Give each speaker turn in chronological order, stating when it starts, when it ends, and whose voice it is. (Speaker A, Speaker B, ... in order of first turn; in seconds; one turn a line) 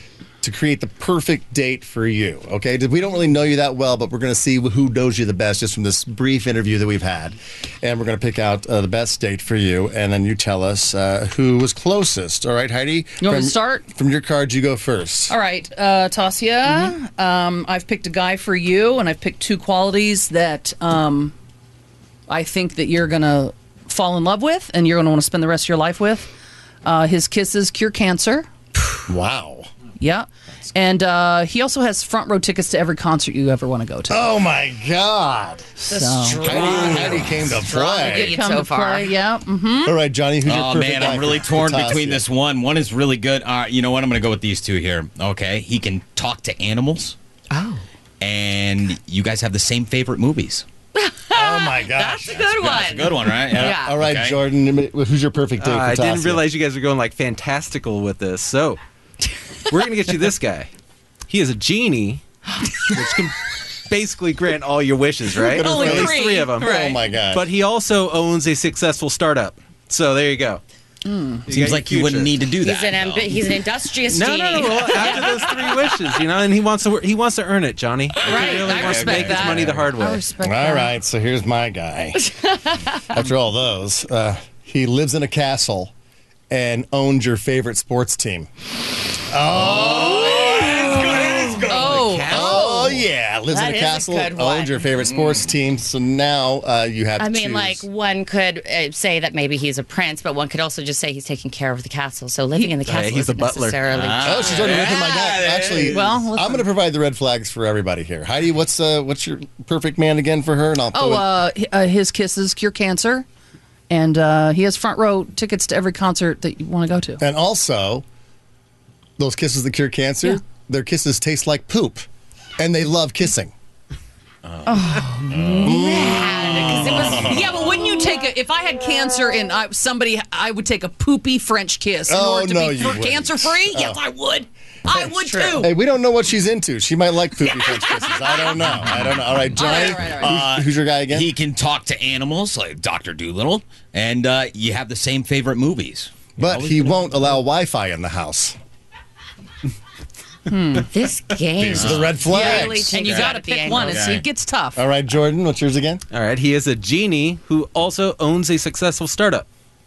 Speaker A: 0.4-15.3
Speaker B: 13.2-13.9
Speaker B: 15.3-21.3
Speaker B: 22.3-26.3
Speaker B: 26.8-28.5
Speaker A: 29.1-29.7
Speaker B: 30.0-34.3
Speaker A: 34.1-35.6
Speaker B: 35.8-37.1
Speaker C: 35.9-39.1
Speaker A: 36.4-38.3
Speaker D: 36.5-37.2
Speaker B: 38.0-40.0
Speaker A: 39.9-42.2
Speaker D: 40.4-47.2
Speaker C: 47.5-47.8
Speaker D: 48.2-50.7
Speaker C: 51.0-54.0
Speaker A: 51.3-52.5
Speaker D: 52.5-54.4
Speaker A: 53.5-56.5
Speaker E: 55.6-58.8
Speaker E: 59.7-60.7
Speaker E: 61.3-62.2
Speaker C: 62.7-63.0
Speaker E: 62.9-70.6
Speaker A: 65.5-67.5
Speaker B: 65.5-67.0
Speaker B: 71.0-71.5
Speaker E: 71.5-72.4
Speaker D: 71.5-73.3
Speaker C: 72.6-76.0
Speaker E: 74.1-80.3
Speaker C: 78.2-78.6
Speaker D: 78.3-79.9
Speaker B: 78.3-80.9
Speaker A: 80.4-82.3
Speaker C: 82.4-83.0
Speaker A: 83.1-85.9
Speaker A: 86.5-88.5
Speaker A: 89.3-91.6
Speaker D: 89.5-92.2
Speaker C: 90.7-91.5
Speaker B: 91.6-92.9
Speaker E: 91.8-93.0
Speaker A: 92.3-97.9
Speaker C: 93.5-94.8
Speaker D: 95.0-95.5
Speaker C: 97.2-104.7
Speaker E: 102.8-104.2
Speaker D: 103.9-106.2
Speaker A: 104.2-111.3
Speaker B: 105.9-106.7
Speaker B: 110.9-113.3
Speaker B: 113.9-117.2
Speaker A: 117.2-118.0
Speaker A: 119.2-122.1
Speaker A: 122.6-123.5
Speaker D: 124.5-127.1
Speaker C: 124.7-127.4
Speaker A: 125.6-127.5
Speaker B: 127.2-135.7
Speaker A: 132.1-134.0
Speaker A: 135.0-141.3
Speaker B: 137.5-138.7
Speaker D: 138.8-146.3
Speaker B: 139.6-140.4
Speaker A: 146.4-148.6
Speaker E: 146.5-146.8
Speaker B: 150.5-150.9
Speaker C: 150.9-154.2
Speaker A: 151.6-152.9
Speaker D: 151.7-154.2
Speaker B: 152.3-154.8
Speaker A: 154.8-156.0
Speaker E: 156.1-159.5